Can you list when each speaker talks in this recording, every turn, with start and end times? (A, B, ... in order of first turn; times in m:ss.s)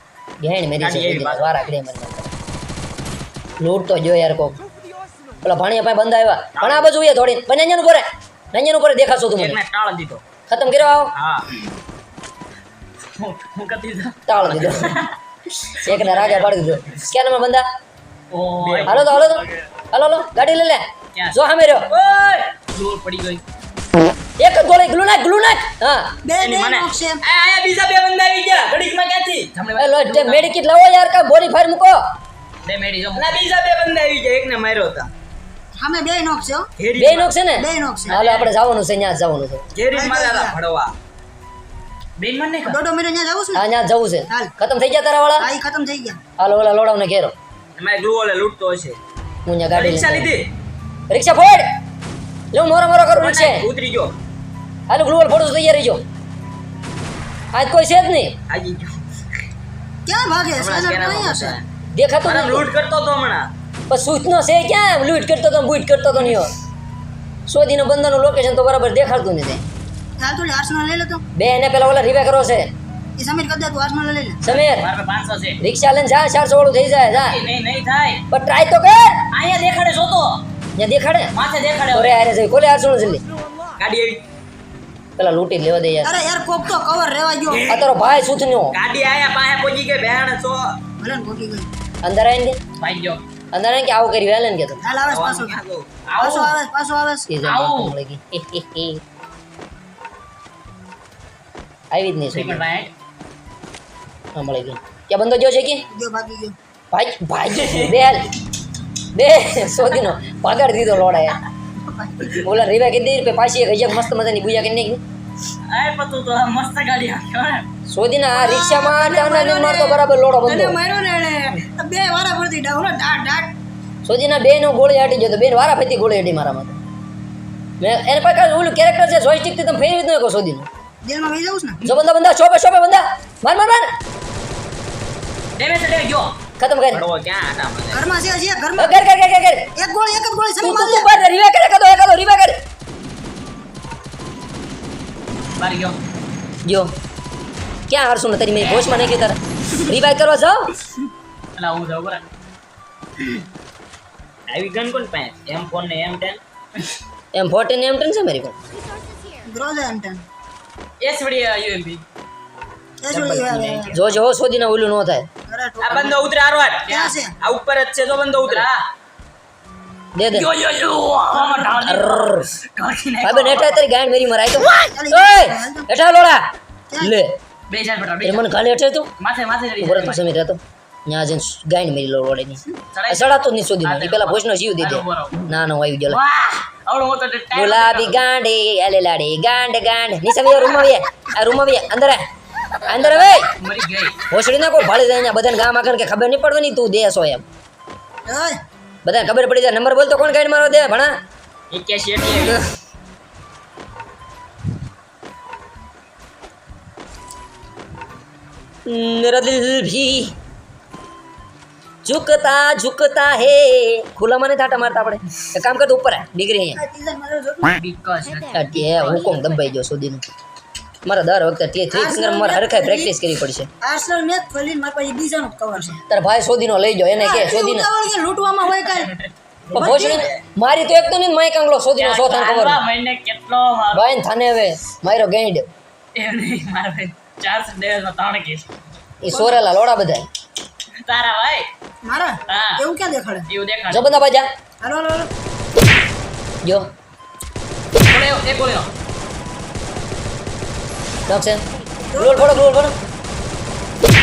0:00.4-0:02.3 A
0:00.8-0:01.5 B
0:03.6-0:04.6 A
0:05.4-0:09.6 A
0:06.6-0:06.9 B
0:09.3-0:10.2 B
0:10.5-0:11.1 A
0:11.1-0:11.5 B
0:13.2-0:16.8 C
0:14.3-0:15.0 A
0:15.8-0:17.6 A
0:18.3-0:19.2 C
0:18.6-0:19.2 B
0:18.9-0:21.9 A
0:21.9-0:23.4 C
0:24.4-0:26.1 A
0:26.2-0:27.2 D
0:26.4-0:29.5 B
0:29.6-0:30.5 C
0:29.8-0:32.0 A
0:32.6-0:33.4 C
0:33.1-0:35.1 B
0:35.8-0:36.7 D
0:36.8-0:37.3 B
0:37.0-0:39.6 A
0:37.5-0:38.2 D
0:38.1-0:38.5 C
0:39.7-0:40.9 B
0:39.9-0:40.6 D
0:42.2-0:42.8 C
0:42.6-0:43.6 D
0:43.5-0:45.5 A
0:45.4-0:46.2 D
0:46.4-0:47.3 A
0:47.8-0:49.0 B
0:49.5-0:50.3 A
0:49.7-0:50.5 B
0:51.1-0:51.7 A
0:52.5-0:53.7 A
0:53.2-0:54.1 B
0:54.9-0:56.0 A
0:57.5-0:58.4 A
0:58.5-0:59.0 B
1:00.0-1:01.6 D
1:00.6-1:01.6 B
1:02.0-1:02.7 A
1:02.2-1:03.5 B
1:03.9-1:06.5 A
1:07.5-1:09.6 A
1:10.2-1:11.2 D
1:11.4-1:12.7 A
1:13.2-1:14.4 D
1:14.4-1:14.9 A
1:14.4-1:15.6 C
1:15.6-1:17.4 A
1:17.1-1:18.2 C
1:18.3-1:19.2 A
1:19.3-1:20.4 C
1:20.8-1:21.3 A
1:21.3-1:22.1 C
1:21.9-1:23.2 A
1:23.8-1:24.2 B
1:25.2-1:26.2 A
1:26.0-1:27.7 D
1:27.5-1:27.9 B
1:27.7-1:28.8 A
1:28.7-1:30.7 B
1:31.0-1:31.7 D
1:32.0-1:32.6 A
1:32.8-1:33.2 C
1:33.5-1:34.8 A
1:34.8-1:35.6 D
1:35.1-1:36.0 B
1:36.1-1:36.6 C
1:36.2-1:37.3 D
1:37.3-1:39.0 A
1:37.4-1:37.9 C
1:41.9-1:42.6 A
1:42.3-1:42.9 C
1:44.3-1:45.8 A
1:45.9-1:46.6 D
1:46.9-1:48.3 A
1:47.6-1:47.9 C
1:49.1-1:51.4 A
1:51.8-1:52.4 D
1:52.3-1:55.0 A
1:55.7-1:57.7 C
1:57.9-2:00.8 A
1:58.3-2:03.5 D
2:04.0-2:06.8 A
2:07.8-2:10.7 A
2:11.0-2:11.8 D
2:11.8-2:13.9 A
2:15.6-2:16.3 C
2:16.6-2:17.0 A
2:16.9-2:18.0 B
2:17.9-2:19.0 D
2:18.8-2:19.7 A
2:19.7-2:21.1 D
2:20.6-2:22.6 A
2:25.6-2:26.0 C
2:26.6-2:26.9 A
2:27.9-2:30.7 A
2:31.6-2:32.2 C
2:34.5-2:36.4 B
2:37.3-2:38.6 A
2:38.7-2:39.5 E
2:39.4-2:40.2 D
2:41.0-2:42.0 C
2:43.0-2:43.9 D
2:43.1-2:44.1 B
2:43.9-2:45.3 A
2:45.5-2:46.2 D
2:45.8-2:48.7 B
2:46.8-2:47.3 D
2:46.9-2:47.2 C
2:48.4-2:48.8 C
2:50.2-2:50.5 A
2:50.3-2:53.8 C
2:51.8-2:52.5 A
2:53.2-2:56.5 A
2:54.9-2:55.9 D
2:56.9-2:57.2 D
2:57.0-2:57.3 A
2:57.7-2:58.4 C
2:58.2-2:59.1 A
2:59.2-3:00.2 C
2:59.8-3:06.2 A
3:02.9-3:05.5 C
3:06.1-3:08.2 C
3:07.5-3:12.2 A
3:12.8-3:13.5 A
3:12.9-3:14.2 C
3:14.3-3:17.4 A
3:18.2-3:18.6 D
3:19.0-3:21.2 A
3:21.7-3:22.6 B
3:28.8-3:30.3 A
3:32.0-3:36.8 A
3:36.7-3:37.8 D
3:37.8-3:39.4 C
3:38.2-3:39.7 E
3:38.5-3:40.2 A
3:41.0-3:43.7 A
3:41.9-3:43.2 D
3:43.8-3:46.0 D
3:46.1-3:47.9 A
3:47.2-3:49.1 D
3:48.9-3:49.3 C
3:49.7-3:50.4 B
3:49.7-3:50.3 D
3:49.7-3:52.8 A
3:52.0-3:54.1 C
3:53.9-3:55.7 A
3:56.1-3:58.7 C
3:59.2-4:00.2 A
3:59.3-3:59.6 D
4:01.0-4:01.7 C
4:02.0-4:03.5 D
4:02.5-4:02.8 C
4:03.5-4:04.1 C
4:03.9-4:04.5 A
4:04.8-4:05.3 D
4:08.1-4:08.9 C
4:11.3-4:11.6 A
4:11.3-4:12.1 E
4:12.1-4:12.5 D
4:12.1-4:12.9 A